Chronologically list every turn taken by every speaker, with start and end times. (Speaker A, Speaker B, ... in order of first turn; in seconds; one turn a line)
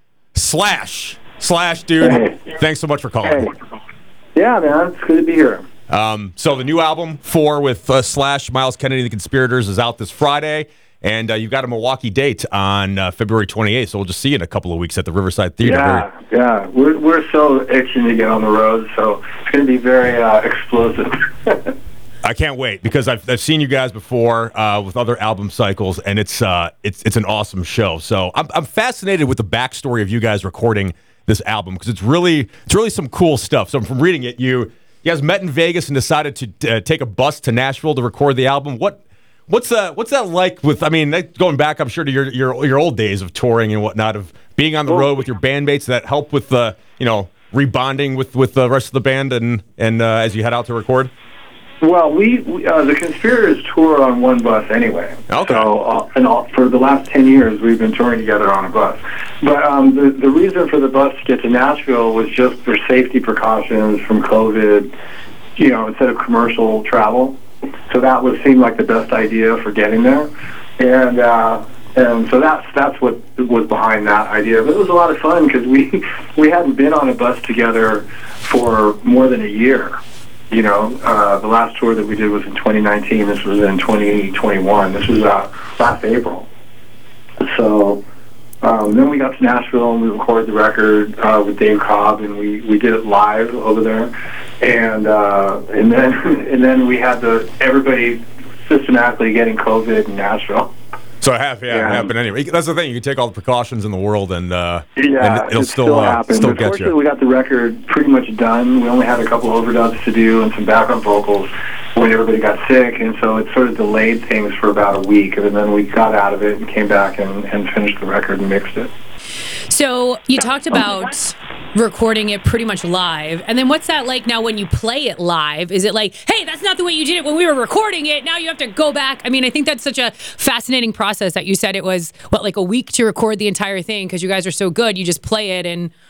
Speaker A: 0.3-3.5
Speaker B: 2.0-2.3
Speaker B: 3.2-3.5
Speaker B: 4.3-5.7
Speaker A: 5.9-16.1
Speaker B: 15.6-21.7
Speaker A: 22.2-51.1
Speaker B: 51.8-64.9
Speaker A: 55.3-55.7
Speaker B: 65.6-67.4
Speaker B: 67.9-80.0
Speaker B: 80.5-86.5
Speaker B: 87.4-88.0
Speaker B: 88.6-100.7
Speaker A: 101.2-106.9
Speaker B: 101.7-102.1
Speaker B: 105.0-118.9
Speaker C: 119.7-135.9